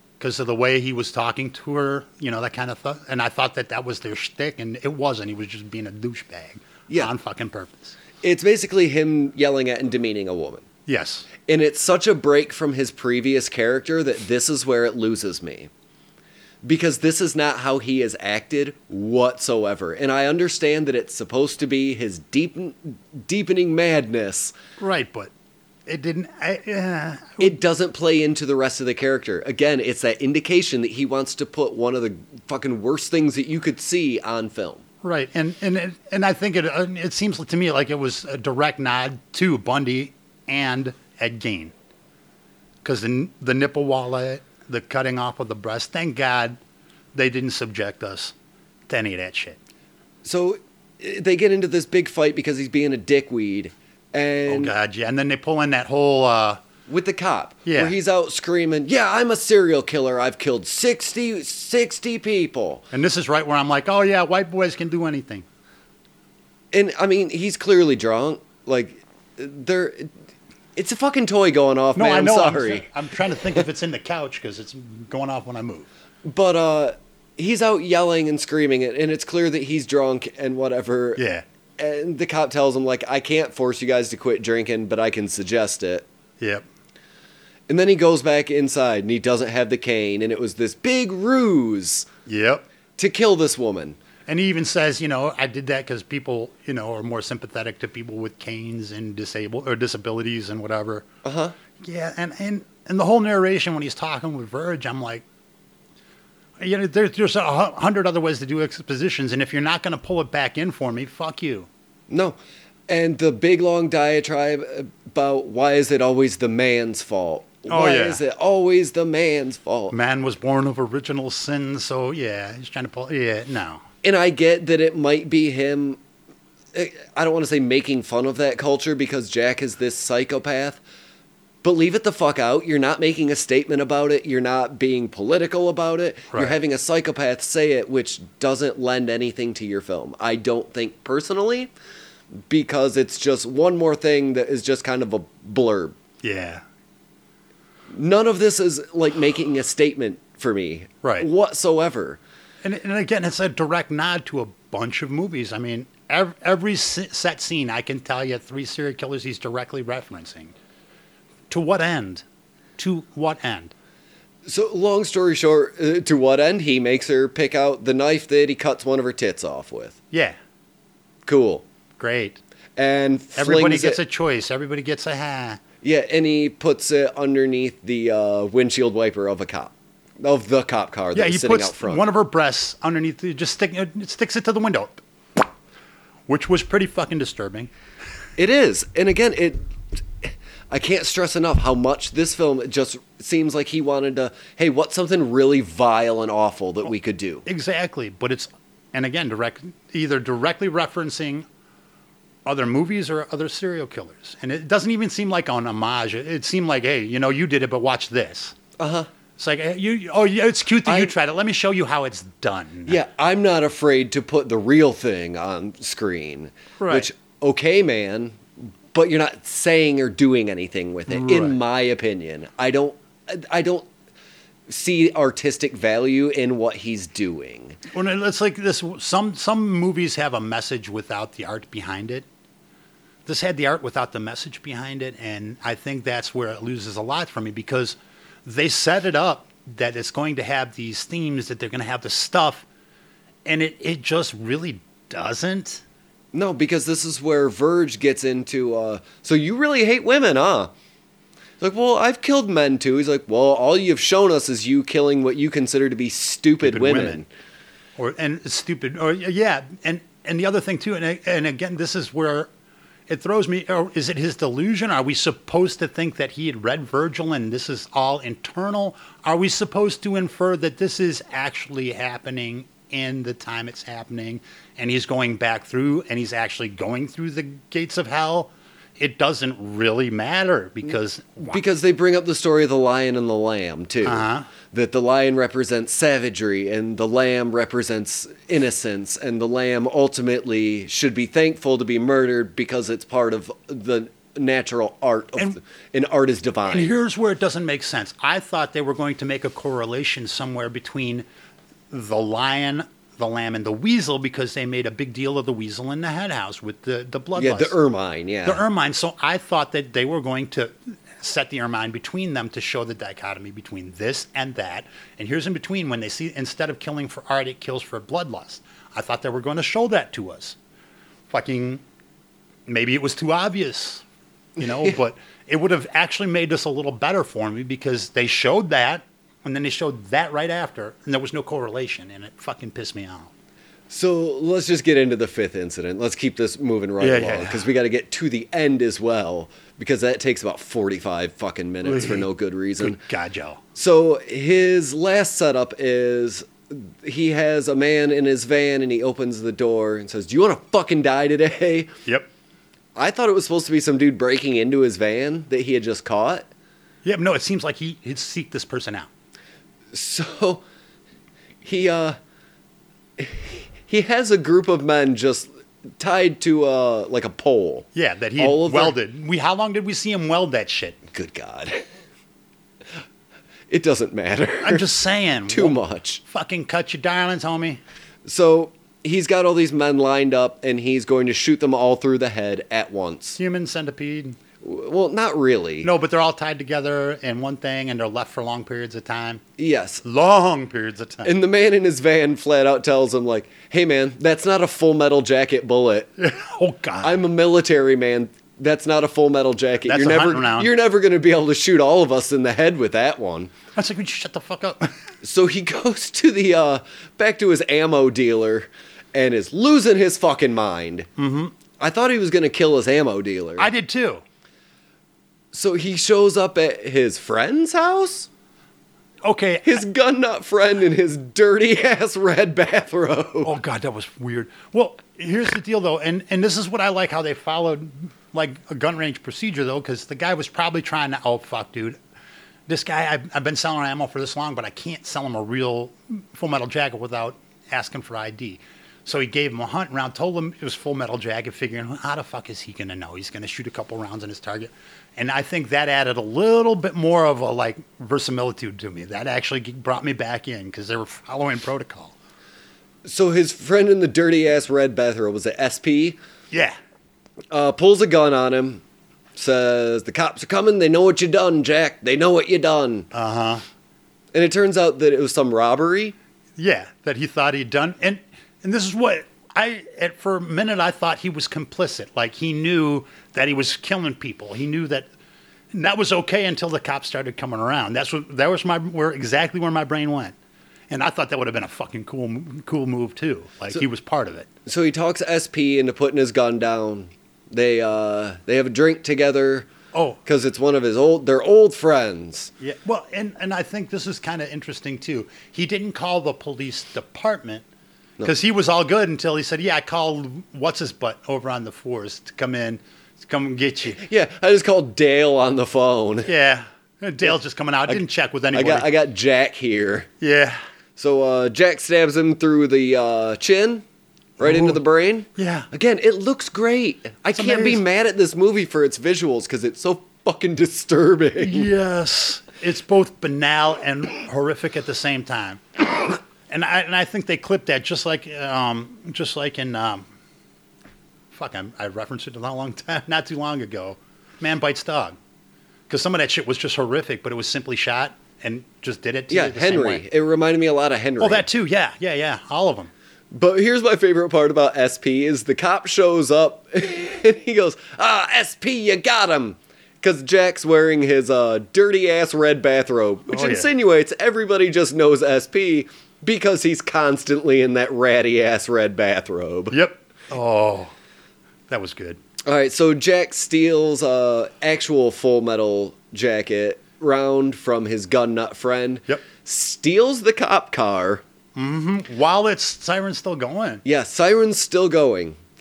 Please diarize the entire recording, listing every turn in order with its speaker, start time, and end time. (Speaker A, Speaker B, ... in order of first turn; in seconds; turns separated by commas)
Speaker A: 0.2-8.0, Speaker B: 8.2-10.7, Speaker A: 10.9-11.3, Speaker B: 11.5-15.7, Speaker B: 16.6-24.5, Speaker A: 24.8-25.3, Speaker A: 25.9-27.6, Speaker B: 27.4-34.8, Speaker A: 35.0-41.7, Speaker A: 42.8-46.6, Speaker A: 47.1-48.3, Speaker A: 48.9-49.6, Speaker B: 50.2-54.7, Speaker A: 54.5-56.6, Speaker B: 56.9-62.9, Speaker A: 57.7-58.0, Speaker A: 62.9-65.5, Speaker B: 66.7-70.1, Speaker B: 70.8-72.9, Speaker A: 72.0-75.9, Speaker B: 76.2-81.2, Speaker A: 81.2-81.5, Speaker B: 81.8-86.1, Speaker A: 86.4-86.7, Speaker B: 87.7-92.1, Speaker A: 92.3-92.7, Speaker B: 93.0-94.0, Speaker A: 94.3-101.1, Speaker B: 101.2-101.5, Speaker A: 101.8-105.2, Speaker A: 106.6-111.7, Speaker B: 112.1-112.4, Speaker B: 112.9-120.0, Speaker A: 117.7-118.2, Speaker A: 119.9-123.8, Speaker B: 124.0-126.0, Speaker B: 126.7-130.8, Speaker B: 131.6-141.7, Speaker A: 136.3-136.6, Speaker B: 142.5-145.9, Speaker A: 146.2-146.6, Speaker B: 147.9-152.2, Speaker A: 151.0-151.3, Speaker A: 152.6-160.5, Speaker A: 161.5-162.2, Speaker A: 162.8-163.7, Speaker B: 164.5-170.0, Speaker B: 171.3-171.6, Speaker A: 172.0-172.4, Speaker B: 172.8-174.0, Speaker A: 173.4-175.6, Speaker B: 175.8-182.0, Speaker A: 181.2-185.5, Speaker A: 186.3-187.7, Speaker B: 188.4-189.6, Speaker B: 190.2-197.5, Speaker A: 197.5-201.4, Speaker A: 202.4-208.6, Speaker B: 208.8-209.1, Speaker A: 209.4-213.0, Speaker B: 210.9-211.1, Speaker B: 212.9-223.9, Speaker A: 216.8-217.1, Speaker A: 221.1-221.6, Speaker B: 224.7-227.8, Speaker A: 227.9-232.3, Speaker A: 233.3-242.7, Speaker A: 243.4-245.8, Speaker B: 246.3-250.7, Speaker B: 251.6-257.3, Speaker A: 256.6-257.2, Speaker A: 258.0-262.5, Speaker A: 263.1-281.6, Speaker B: 281.4-296.9, Speaker A: 284.0-284.5, Speaker A: 296.7-301.2, Speaker A: 301.9-307.7, Speaker B: 307.4-308.6, Speaker A: 308.4-320.6, Speaker A: 321.3-321.8, Speaker A: 322.7-324.0, Speaker A: 324.6-333.3, Speaker B: 324.6-324.9, Speaker B: 333.9-343.0, Speaker A: 337.0-337.7, Speaker A: 341.9-342.2, Speaker A: 342.8-343.6, Speaker B: 343.8-351.9, Speaker B: 353.0-356.5, Speaker A: 357.0-359.1, Speaker B: 359.9-360.6, Speaker B: 361.6-362.2, Speaker B: 363.2-367.9, Speaker A: 367.9-371.0, Speaker B: 368.4-368.9, Speaker B: 371.1-371.9, Speaker B: 373.7-374.9, Speaker A: 374.6-377.8, Speaker B: 375.5-376.2, Speaker B: 378.2-383.4, Speaker A: 383.4-384.4, Speaker B: 384.6-385.9, Speaker A: 385.8-389.4, Speaker B: 389.6-390.0, Speaker A: 390.0-391.3, Speaker B: 391.2-396.1, Speaker A: 396.2-397.2, Speaker B: 397.0-403.5, Speaker A: 399.9-400.7, Speaker A: 403.8-404.9, Speaker B: 405.2-411.1, Speaker A: 411.2-411.6, Speaker B: 411.8-413.7, Speaker A: 413.6-414.2, Speaker B: 415.5-418.3, Speaker A: 419.2-419.8, Speaker B: 419.6-423.6, Speaker A: 423.4-432.0, Speaker A: 432.7-452.2, Speaker B: 453.1-456.2, Speaker B: 457.5-458.8, Speaker B: 459.4-463.1, Speaker A: 463.1-463.6, Speaker B: 464.3-466.1, Speaker A: 466.6-475.1, Speaker A: 475.7-480.4, Speaker A: 480.9-484.5, Speaker B: 484.7-489.7, Speaker A: 489.9-490.2, Speaker B: 490.2-492.5, Speaker A: 492.6-497.6, Speaker A: 498.2-504.0, Speaker B: 503.9-506.3, Speaker A: 506.3-508.9, Speaker B: 508.5-510.1, Speaker A: 510.2-510.6, Speaker B: 511.0-513.8, Speaker B: 514.4-521.7, Speaker A: 514.4-514.8, Speaker A: 515.4-515.7, Speaker A: 517.3-517.8, Speaker A: 521.4-530.1, Speaker A: 531.3-535.2, Speaker A: 535.9-540.0, Speaker B: 539.3-541.5, Speaker A: 541.2-542.9, Speaker B: 543.3-559.8, Speaker A: 553.3-553.7, Speaker A: 559.7-560.9, Speaker A: 561.7-562.2, Speaker B: 562.4-571.2, Speaker A: 571.6-573.8, Speaker B: 573.9-575.4